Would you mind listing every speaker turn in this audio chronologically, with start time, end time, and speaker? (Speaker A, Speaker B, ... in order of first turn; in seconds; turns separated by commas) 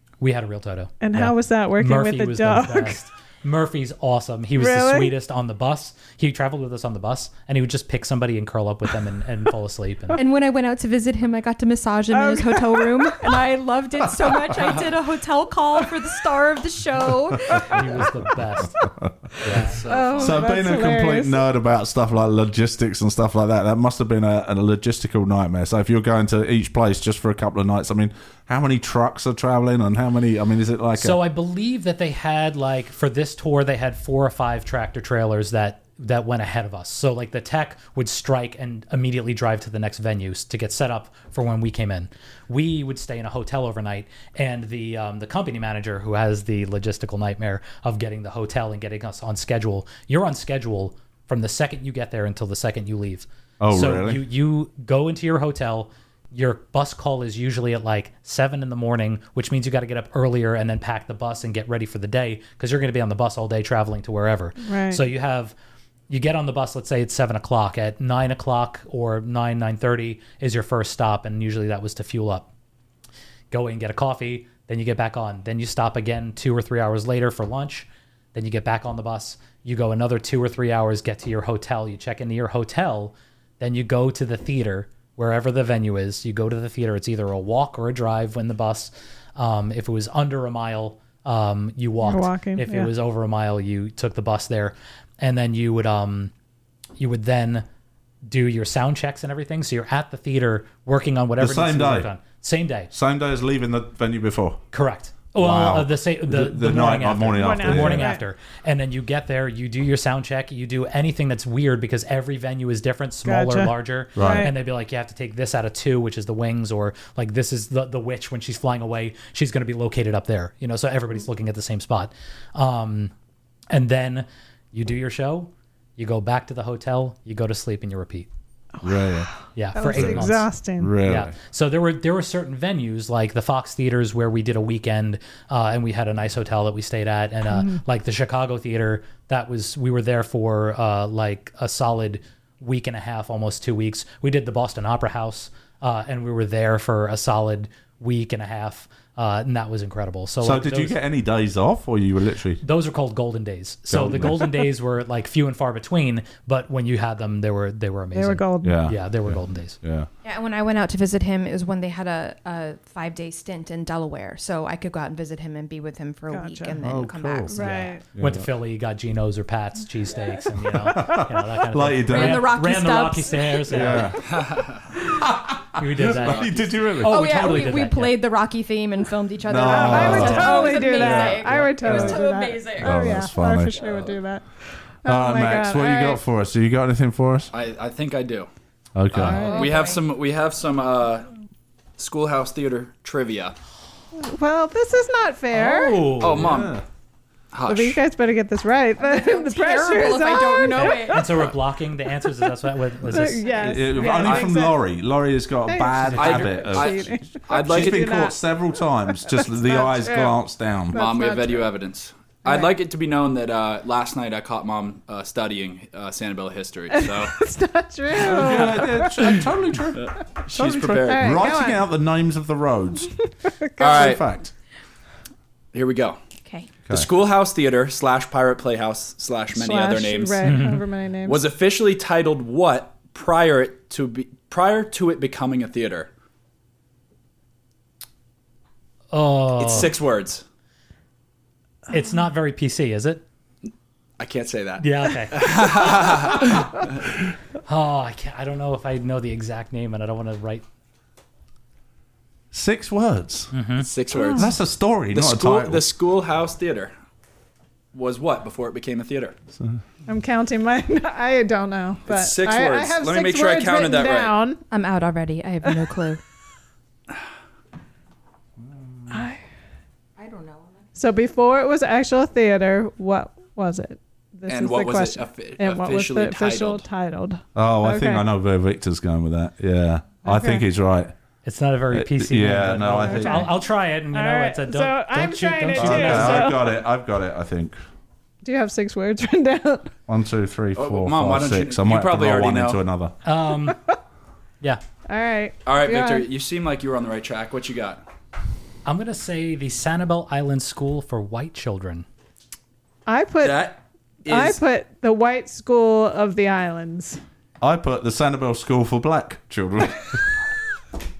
Speaker A: 0.2-10.2, Speaker B: 1.0-3.0, Speaker B: 4.6-5.1, Speaker C: 10.1-18.0, Speaker B: 12.1-13.2, Speaker A: 17.6-18.9, Speaker D: 18.8-19.1, Speaker A: 19.4-19.8, Speaker E: 19.5-20.4, Speaker B: 19.9-21.4, Speaker D: 20.2-31.2, Speaker A: 31.0-65.5, Speaker D: 53.6-54.2, Speaker B: 64.6-65.0, Speaker A: 66.1-72.5, Speaker A: 73.5-96.3, Speaker B: 92.0-92.9, Speaker A: 97.0-97.6, Speaker A: 98.2-102.9, Speaker D: 101.4-102.1, Speaker D: 102.9-104.6, Speaker A: 104.7-123.1, Speaker D: 105.3-108.1, Speaker B: 107.4-108.2, Speaker B: 113.2-114.5, Speaker D: 114.2-114.5, Speaker A: 123.7-128.3, Speaker D: 128.8-129.3, Speaker A: 129.5-151.0, Speaker B: 129.7-130.9, Speaker D: 129.9-130.3, Speaker D: 130.8-131.3, Speaker B: 137.5-137.8, Speaker D: 150.4-152.6, Speaker A: 152.6-159.8, Speaker D: 153.9-154.5, Speaker B: 158.1-158.8, Speaker D: 158.6-160.1, Speaker C: 160.2-168.0, Speaker B: 166.3-166.8, Speaker D: 166.8-167.5, Speaker B: 167.5-168.0, Speaker A: 167.8-174.2, Speaker D: 168.1-168.5, Speaker D: 170.6-172.5, Speaker C: 172.0-174.1, Speaker D: 173.7-174.3, Speaker E: 174.2-174.9, Speaker D: 175.0-177.4, Speaker A: 175.7-178.2, Speaker C: 177.0-183.2, Speaker D: 179.4-182.2, Speaker B: 179.6-186.2, Speaker D: 182.8-183.8, Speaker D: 185.0-187.5, Speaker E: 187.5-188.5, Speaker D: 188.9-189.4, Speaker E: 189.1-191.3, Speaker B: 189.2-189.7, Speaker C: 189.2-190.0, Speaker E: 192.0-193.5, Speaker B: 194.2-196.1, Speaker A: 195.5-196.4, Speaker D: 196.2-196.8, Speaker E: 196.2-196.8, Speaker E: 197.5-198.0, Speaker B: 197.7-201.4, Speaker C: 199.0-201.5, Speaker A: 200.6-203.5, Speaker B: 203.0-204.8, Speaker D: 203.6-211.0, Speaker E: 204.1-204.5, Speaker B: 205.7-208.6, Speaker A: 206.0-206.6, Speaker E: 206.1-208.1, Speaker B: 209.2-210.3, Speaker B: 210.9-211.7, Speaker E: 210.9-217.4, Speaker B: 212.4-212.7, Speaker B: 216.9-219.3, Speaker D: 218.2-223.1, Speaker E: 218.2-219.4, Speaker E: 219.9-221.5, Speaker B: 220.9-221.8, Speaker B: 223.6-224.1, Speaker E: 223.8-224.2, Speaker D: 223.8-224.5, Speaker E: 225.7-226.2, Speaker C: 226.4-226.7, Speaker E: 226.9-230.7, Speaker B: 229.5-231.4, Speaker A: 230.4-230.8, Speaker E: 231.2-236.1, Speaker A: 239.1-239.9, Speaker E: 239.6-240.4, Speaker A: 241.9-243.2, Speaker E: 244.2-246.9, Speaker A: 244.8-245.8, Speaker A: 247.7-250.6, Speaker D: 252.5-253.5, Speaker A: 253.5-253.9, Speaker E: 253.8-254.6, Speaker B: 254.1-254.5, Speaker D: 254.3-255.8, Speaker E: 255.1-256.9, Speaker E: 257.9-259.4, Speaker B: 260.1-264.6, Speaker E: 262.1-264.3, Speaker C: 264.7-266.2, Speaker B: 265.6-265.9, Speaker D: 268.7-269.2, Speaker B: 269.1-269.4, Speaker C: 270.2-270.7, Speaker B: 270.9-278.2, Speaker E: 274.5-276.9, Speaker D: 277.5-281.1, Speaker B: 280.2-280.6, Speaker A: 281.4-286.5, Speaker D: 281.9-283.5, Speaker B: 283.0-283.5, Speaker B: 284.1-286.8, Speaker D: 285.7-287.8, Speaker B: 288.4-289.9, Speaker D: 290.1-293.1, Speaker E: 290.8-292.8, Speaker A: 293.2-293.8, Speaker B: 295.1-296.2, Speaker E: 295.6-298.0, Speaker A: 298.8-302.1, Speaker B: 303.1-303.7, Speaker E: 303.4-304.6, Speaker B: 304.3-307.2, Speaker D: 307.6-310.2